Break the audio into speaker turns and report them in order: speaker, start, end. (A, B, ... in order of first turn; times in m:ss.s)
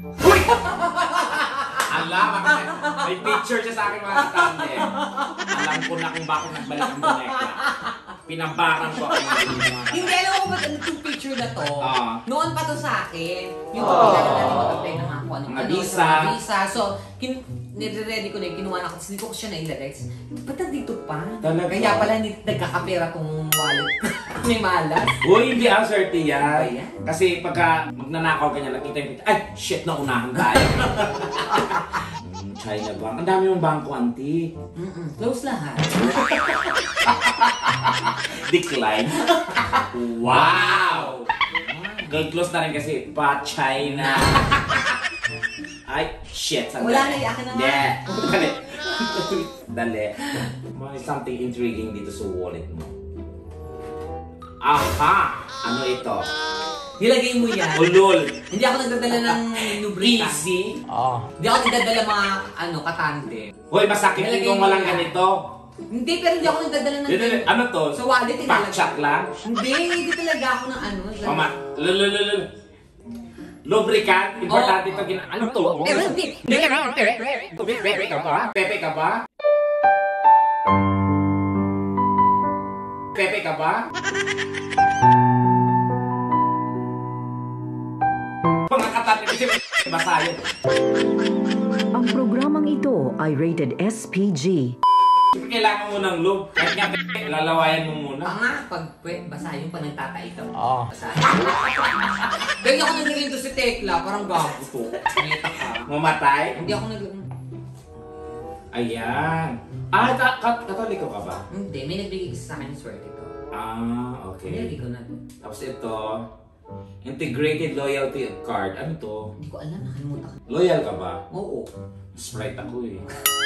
0:00.2-0:03.4 A
0:01.8-0:07.6 B
0:04.1-0:05.8 A
0:06.6-0:08.1 A
0:08.3-0:10.2 B
0:08.9-0:25.2 A
0:11.8-0:12.2 B
0:13.8-0:16.3 B
0:21.4-0:22.1 B
0:25.2-0:34.5 B
0:26.4-0:27.0 A
0:30.6-0:31.8 A
0:34.8-0:36.6 A
0:36.2-0:39.3 B
0:39.2-0:42.2 A
0:39.8-0:41.2 B
0:42.0-0:45.0 B
0:43.9-0:44.8 A
0:45.9-0:52.9 B
0:46.8-0:48.0 A
0:54.6-0:56.3 B
0:57.0-1:00.5 A
0:57.7-0:58.4 B
0:59.1-1:01.1 B
1:01.0-1:01.2 C
1:01.4-1:03.5 A
1:03.7-1:05.5 B
1:04.1-1:05.2 A
1:05.9-1:11.5 A
1:07.1-1:09.3 B
1:11.2-1:12.5 B
1:13.7-1:19.2 B
1:14.5-1:15.1 A
1:15.8-1:17.3 A
1:23.1-1:23.9 B
1:28.7-1:30.4 B
1:31.9-1:34.8 C
1:35.3-1:38.4 B
1:38.2-1:45.9 A
1:41.4-1:42.2 B
1:45.2-1:46.6 B
1:46.5-1:47.3 A
1:48.7-1:51.5 B
1:51.5-1:53.3 A
1:53.5-1:54.7 B
1:54.4-1:55.2 A
1:55.4-1:56.3 B
1:57.0-1:59.3 B
1:59.4-2:00.4 A
2:00.5-2:01.2 B
2:01.3-2:01.7 A
2:02.2-2:03.1 B